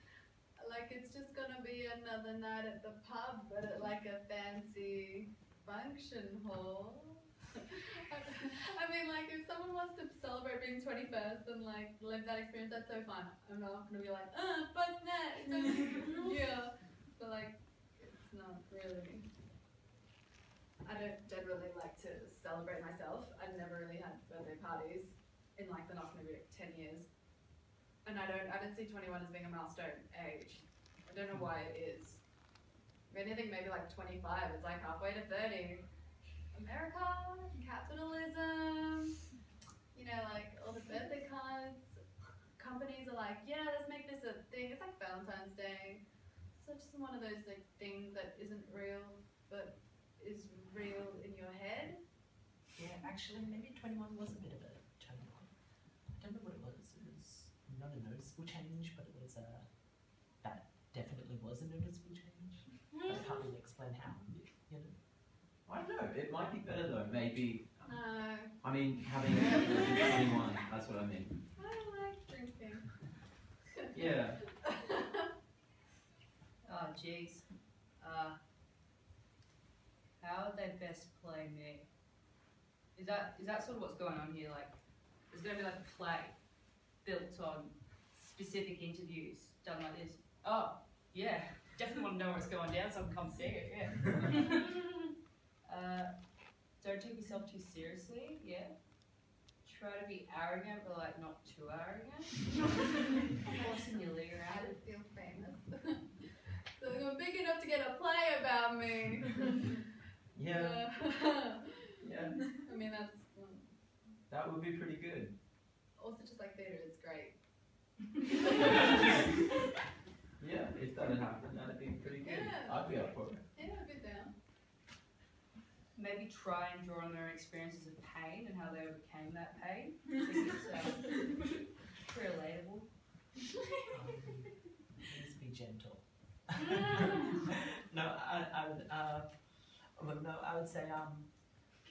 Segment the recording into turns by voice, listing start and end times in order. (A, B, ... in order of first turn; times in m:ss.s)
0:00.6-0:19.3 A
0:20.8-0:27.1 A
0:28.0-0:32.2 A
0:33.1-0:35.8 A
0:36.5-0:39.1 A
0:39.9-0:42.0 A
0:42.6-0:46.0 A
0:46.5-0:52.0 A
0:52.8-0:55.5 B
0:56.1-0:59.8 B
1:00.3-1:05.0 B
1:05.6-1:11.4 C
1:07.9-1:08.5 A
1:11.6-1:13.1 A
1:13.9-1:14.5 C
1:14.6-1:15.2 A
1:16.6-1:17.5 D
1:18.0-1:18.4 D
1:20.2-1:21.9 D
1:22.9-1:24.8 D
1:25.3-1:26.4 D
1:27.0-1:34.9 D
1:35.6-1:36.1 D
1:36.8-1:38.7 D
1:39.6-1:44.8 D
1:44.4-1:49.8 A
1:50.3-1:50.9 C
1:50.5-1:52.0 A
1:52.0-1:52.5 C
1:52.5-1:53.8 A
1:54.3-1:55.3 C
1:56.0-1:57.4 A
1:58.2-1:59.1 A
2:00.4-2:03.4 C
2:02.2-2:02.9 A
2:03.5-2:04.3 A
2:05.9-2:11.3 D
2:11.9-2:12.9 D
2:13.9-2:21.3 B